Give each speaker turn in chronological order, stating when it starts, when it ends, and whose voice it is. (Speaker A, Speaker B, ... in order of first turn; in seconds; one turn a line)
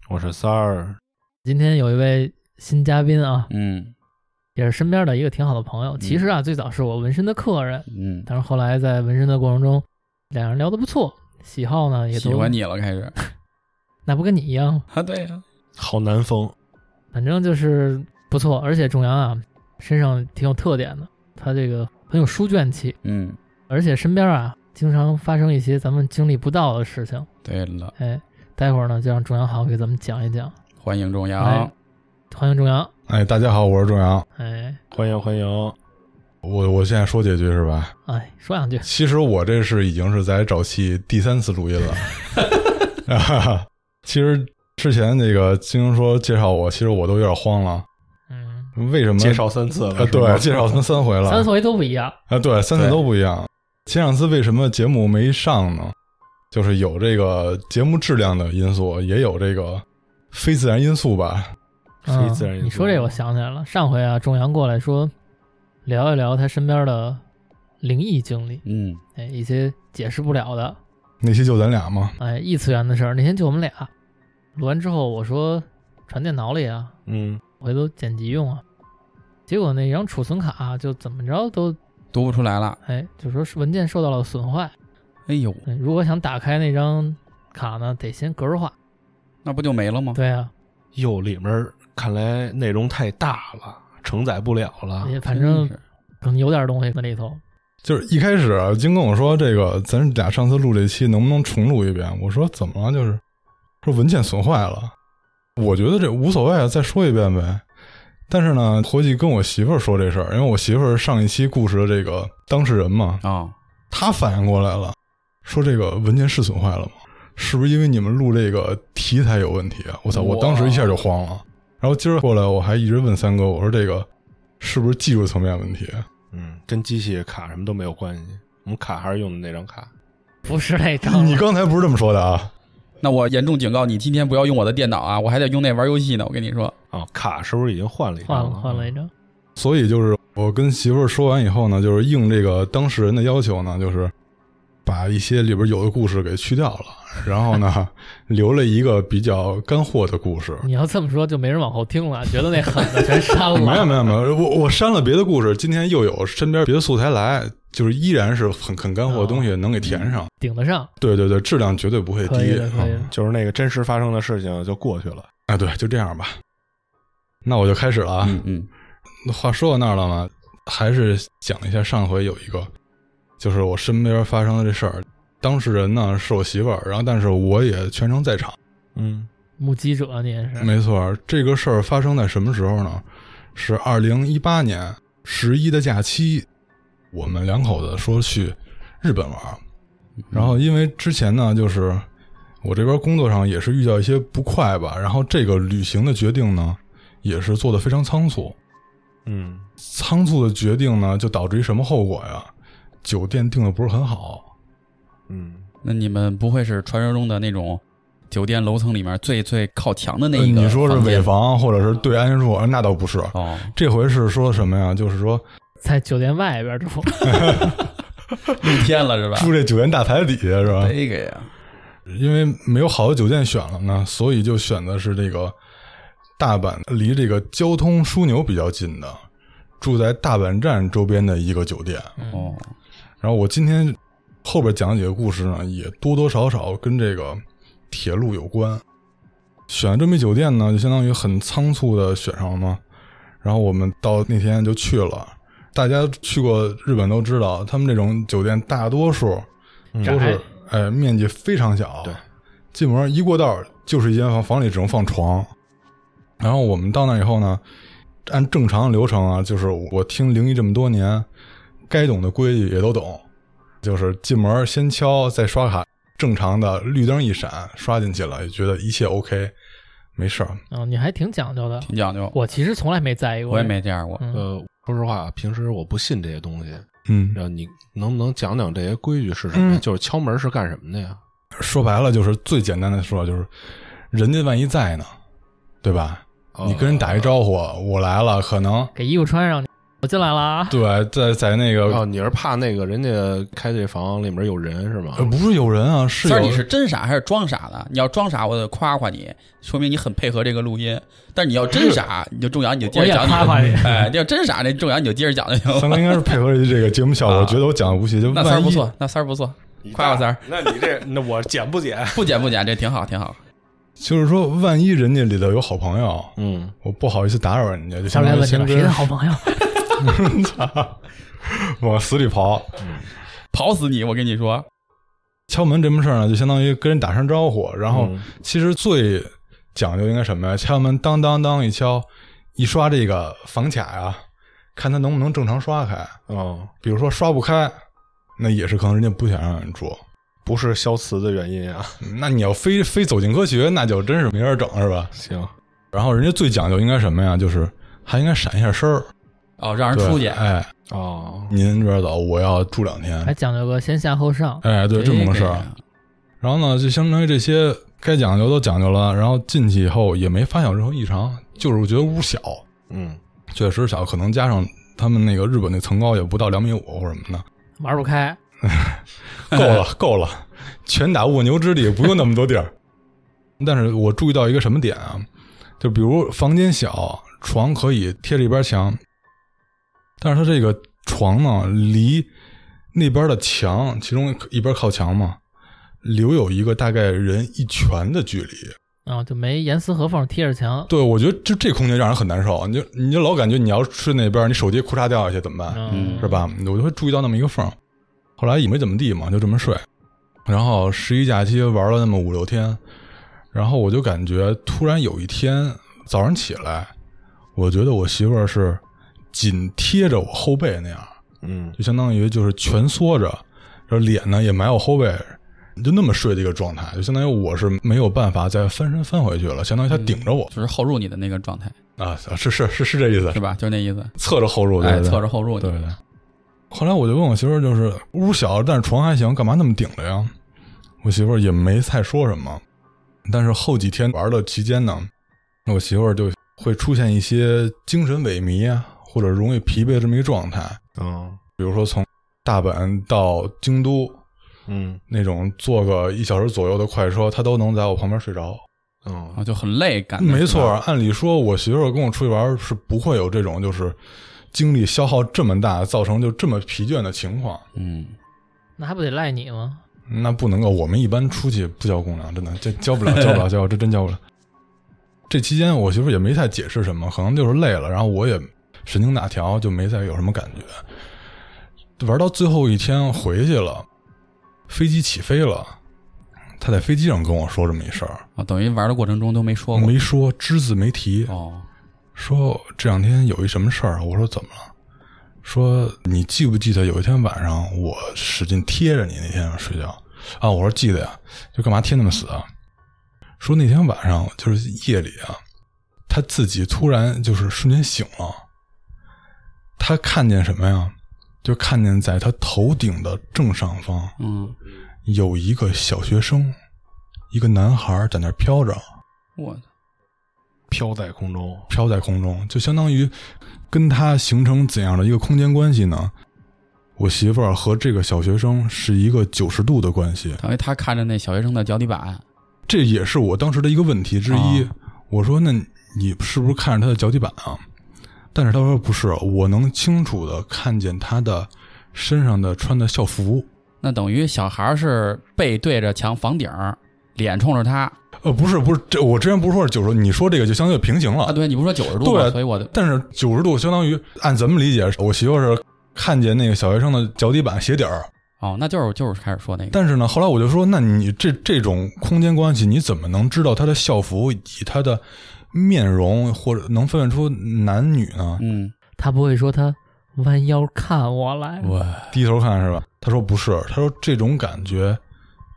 Speaker A: 0.1-1.0
Speaker B: 1.4-3.5
Speaker C: 3.5-3.9
Speaker B: 4.6-12.6
Speaker C: 7.9-8.3
Speaker C: 12.1-13.2
Speaker B: 14.1-14.8
Speaker C: 14.9-15.4
Speaker A: 15.8-16.5
Speaker B: 17.1-23.0
Speaker C: 23.0-23.4
Speaker B: 23.7-27.3
Speaker C: 27.4-27.9
Speaker B: 28.0-30.5
Speaker C: 30.8-31.7
Speaker B: 31.4-31.7
Speaker B: 32.3-32.9
Speaker D: 33.1-34.2
Speaker B: 34.4-34.8
Speaker A: 34.9-35.8
Speaker D: 36.4-37.9
Speaker B: 38.0-38.9
Speaker D: 38.8-42.4
Speaker D: 43.0-47.9
Speaker B: 48.3-48.7
Speaker D: 48.8-51.5
Speaker A: 49.2-50.7
Speaker B: 51.2-52.2
Speaker D: 52.3-56.0
Speaker D: 56.5-61.5
Speaker A: 62.0-63.2
Speaker B: 62.0-65.1
Speaker B: 65.8-67.2
Speaker B: 67.8-68.6
Speaker C: 68.7-69.0
Speaker B: 69.2-70.8
Speaker D: 71.2-72.2
Speaker B: 72.2-73.9
Speaker B: 74.6-76.9
Speaker A: 77.1-77.4
Speaker B: 77.6-78.6
Speaker B: 79.5-81.8
Speaker C: 82.1-82.8
Speaker B: 82.8-84.7
Speaker C: 85.3-85.7
Speaker B: 85.7-88.8
Speaker C: 89.4-90.2
Speaker B: 90.2-90.5
Speaker A: 91.0-95.2
Speaker B: 95.0-97.4
Speaker C: 95.3-95.8
Speaker D: 97.8-103.2
Speaker D: 103.8-104.9
Speaker D: 105.6-107.6
Speaker D: 108.3-113.2
Speaker C: 113.2-113.5
Speaker D: 113.9-124.1
Speaker C: 120.1-121.0
Speaker D: 124.6-126.1
Speaker A: 126.3-129.9
Speaker B: 130.4-131.4
Speaker D: 131.0-132.5
Speaker C: 133.0-136.8
Speaker A: 136.9-138.9
Speaker B: 138.2-139.1
Speaker D: 139.6-144.1
Speaker D: 144.8-150.7
Speaker B: 150.6-154.1
Speaker D: 153.5-160.3
Speaker B: 159.1-159.5
Speaker C: 159.8-160.2
Speaker B: 160.4-160.9
Speaker D: 161.0-163.1
Speaker B: 162.2-163.1
Speaker A: 163.1-165.3
Speaker D: 165.5-166.4
Speaker D: 167.4-168.4
Speaker C: 168.2-168.7
Speaker D: 169.2-172.7
Speaker D: 173.4-178.6
Speaker A: 178.9-179.3
Speaker B: 179.6-180.7
Speaker D: 180.6-186.5
Speaker D: 187.1-189.6
Speaker C: 190.3-190.6
Speaker D: 190.3-192.1
Speaker D: 192.6-198.6
Speaker A: 199.2-199.7
Speaker D: 199.8-202.5
Speaker D: 203.0-204.5
Speaker A: 205.3-205.7
Speaker C: 205.8-211.3
Speaker D: 210.3-215.4
Speaker C: 213.3-213.7
Speaker B: 215.8-217.6
Speaker D: 217.2-217.9
Speaker D: 218.5-220.9
Speaker C: 218.5-219.5
Speaker C: 220.7-221.5
Speaker D: 222.1-225.6
Speaker D: 226.4-229.2
Speaker D: 229.8-232.2
Speaker B: 232.2-232.6
Speaker C: 232.3-232.7
Speaker D: 233.2-238.8
Speaker D: 239.7-242.8
Speaker D: 243.4-249.5
Speaker A: 249.9-250.3
Speaker B: 250.0-250.4
Speaker D: 250.0-252.2
Speaker D: 252.7-255.5
Speaker D: 256.4-257.6
Speaker D: 258.2-261.3
Speaker D: 261.9-263.2
Speaker D: 263.8-269.5
Speaker D: 270.1-270.6
Speaker B: 270.7-274.4
Speaker C: 271.8-272.3
Speaker C: 273.5-274.2
Speaker A: 274.3-281.2
Speaker D: 277.1-277.4
Speaker D: 279.5-279.8
Speaker D: 281.6-283.5
Speaker D: 284.1-285.1
Speaker D: 285.8-288.9
Speaker A: 286.5-287.4
Speaker B: 288.9-290.8
Speaker D: 290.7-292.0
Speaker A: 291.9-295.3
Speaker D: 295.1-296.6
Speaker C: 296.2-306.3
Speaker B: 302.9-304.1
Speaker D: 305.7-308.9
Speaker C: 307.2-307.7
Speaker C: 308.3-310.4
Speaker A: 309.8-312.3
Speaker C: 312.1-313.4
Speaker D: 314.0-319.1
Speaker A: 316.4-316.7
Speaker B: 318.1-319.5
Speaker D: 319.9-322.9
Speaker C: 323.5-324.6
Speaker D: 325.5-334.2
Speaker A: 327.9-328.2
Speaker D: 334.8-336.2
Speaker A: 336.3-336.7
Speaker D: 336.8-337.8
Speaker D: 338.4-340.0
Speaker A: 340.4-342.0
Speaker D: 342.0-345.1
Speaker A: 345.1-345.5
Speaker D: 345.9-349.1
Speaker C: 349.6-350.4
Speaker D: 349.9-350.7
Speaker A: 350.9-351.6
Speaker D: 351.5-353.3
Speaker B: 353.2-354.6
Speaker D: 354.6-355.7
Speaker C: 354.9-355.8
Speaker D: 356.4-362.6
Speaker A: 362.9-363.2
Speaker D: 363.5-367.4
Speaker B: 367.8-368.4
Speaker D: 368.6-372.7
Speaker D: 373.6-375.2
Speaker D: 375.8-379.0
Speaker D: 380.2-382.3
Speaker D: 382.9-385.4
Speaker D: 386.0-388.8
Speaker B: 389.1-390.9
Speaker D: 390.9-397.8
Speaker B: 395.7-396.4
Speaker C: 395.9-396.4
Speaker D: 398.4-399.8
Speaker D: 400.5-402.8
Speaker D: 403.5-406.9
Speaker D: 407.5-408.8
Speaker D: 409.3-411.1
Speaker A: 411.4-411.8
Speaker D: 411.8-420.5
Speaker C: 419.9-421.8
Speaker D: 422.0-423.4
Speaker C: 423.3-424.1
Speaker D: 424.2-425.9
Speaker C: 424.8-425.7
Speaker D: 426.7-430.3
Speaker D: 431.0-432.6
Speaker D: 433.3-435.1
Speaker D: 435.6-440.8
Speaker A: 440.9-441.4
Speaker D: 441.6-444.2
Speaker A: 444.7-445.0
Speaker D: 445.1-448.6
Speaker A: 449.0-449.4
Speaker C: 449.4-450.8
Speaker D: 450.2-454.0
Speaker D: 454.5-457.6
Speaker C: 457.8-458.1
Speaker B: 458.8-459.8
Speaker D: 460.1-464.2
Speaker C: 463.1-463.4
Speaker D: 465.3-470.8
Speaker D: 472.0-473.9
Speaker D: 474.7-475.8
Speaker D: 476.6-478.2
Speaker C: 478.4-479.9
Speaker D: 479.7-481.3
Speaker C: 481.3-481.7
Speaker D: 482.1-484.7
Speaker D: 485.4-492.4
Speaker D: 493.4-495.4
Speaker D: 496.1-498.4
Speaker D: 499.8-504.1
Speaker C: 504.2-504.6
Speaker D: 505.1-506.6
Speaker D: 507.3-508.8
Speaker C: 509.4-509.6
Speaker A: 510.7-511.7
Speaker D: 511.7-513.1
Speaker D: 513.7-516.1
Speaker D: 517.0-520.4
Speaker C: 520.4-522.2
Speaker D: 522.7-527.6
Speaker C: 524.3-524.7
Speaker D: 528.3-533.5
Speaker C: 533.8-537.9
Speaker D: 538.2-541.4
Speaker C: 541.2-542.7
Speaker D: 542.0-548.1
Speaker C: 548.4-549.8
Speaker D: 549.7-558.4
Speaker C: 558.4-558.7
Speaker B: 559.0-561.7
Speaker C: 561.6-562.1
Speaker D: 562.1-565.0